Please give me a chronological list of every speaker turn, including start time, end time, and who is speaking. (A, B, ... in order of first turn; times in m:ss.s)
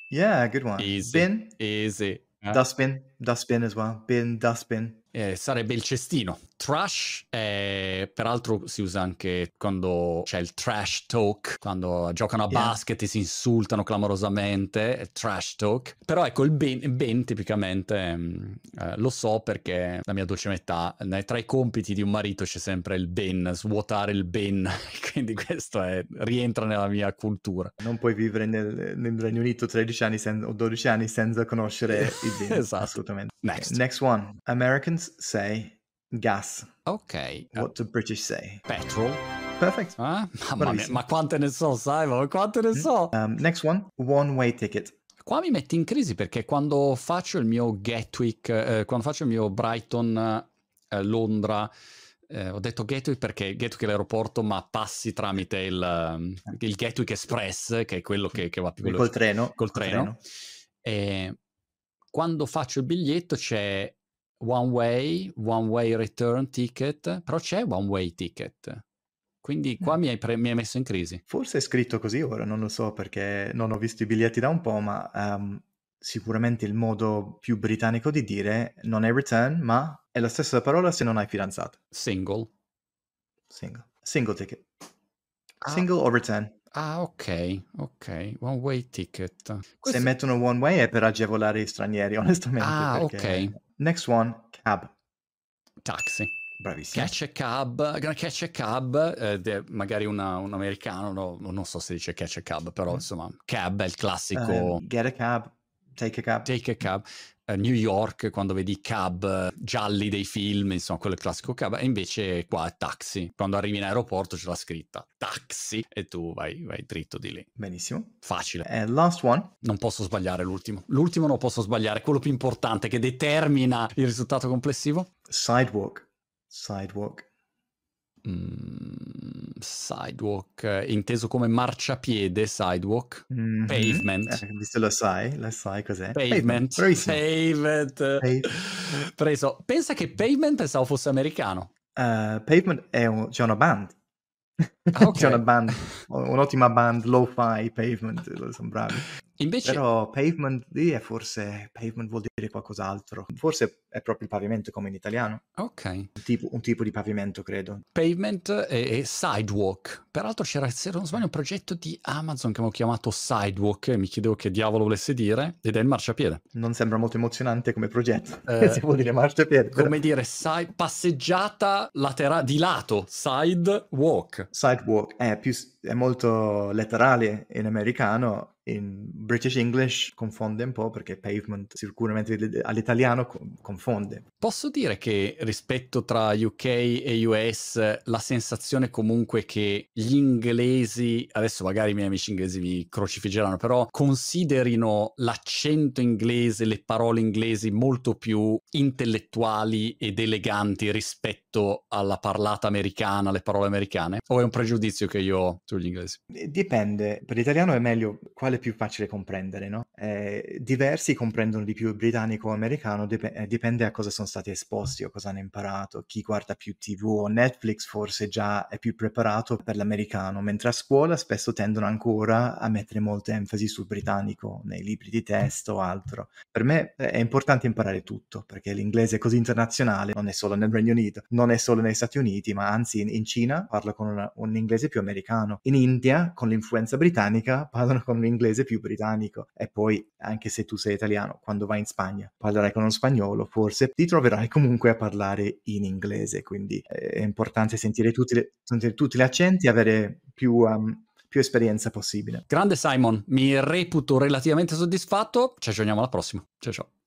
0:00.1-0:01.5 A
0:00.8-0:02.6 B
0:02.5-0:05.0 A
0:05.1-0:27.8 B
0:12.5-0:12.8 A
0:27.8-0:36.7 A
0:31.9-0:33.8 B
0:36.8-0:37.7 B
0:37.5-0:38.7 A
0:38.7-0:39.2 B
0:39.6-0:40.0 A
0:40.0-0:43.1 B
0:40.6-0:41.0 A
0:42.7-0:44.9 A
0:45.2-0:51.7 B
0:52.3-1:00.1 B
0:58.8-1:00.2 A
1:00.8-1:01.4 B
1:02.1-1:08.8 B
1:09.4-1:11.2 B
1:11.3-1:21.8 A
1:21.9-1:22.5 B
1:23.5-1:24.6 A
1:25.6-1:26.5 A
1:26.7-1:30.1 B
1:29.8-1:34.9 A
1:32.6-1:33.5 B
1:35.8-1:36.3 B
1:36.6-1:37.1 A
1:36.9-1:44.8 B
1:44.3-1:46.5 A
1:46.4-1:57.5 B
1:57.6-1:59.5 A
1:58.2-1:58.6 B
1:59.6-2:05.1 B
2:05.3-2:07.2 A
2:08.2-2:14.4 B
2:13.3-2:17.2 A
2:16.1-2:21.7 B
2:18.2-2:18.5 A
2:22.0-2:23.9 A
2:24.6-2:29.1 A
2:24.9-2:26.0 B
2:29.4-2:29.8 B
2:29.6-2:35.4 A
2:35.6-2:36.1 B
2:36.2-2:37.8 A
2:37.9-2:46.4 B
2:46.5-2:50.0 A
2:48.5-2:48.8 B
2:49.7-2:54.5 B
2:54.5-3:04.2 A
3:04.4-3:26.2 B
3:26.3-4:12.4 A
4:12.5-4:16.9 B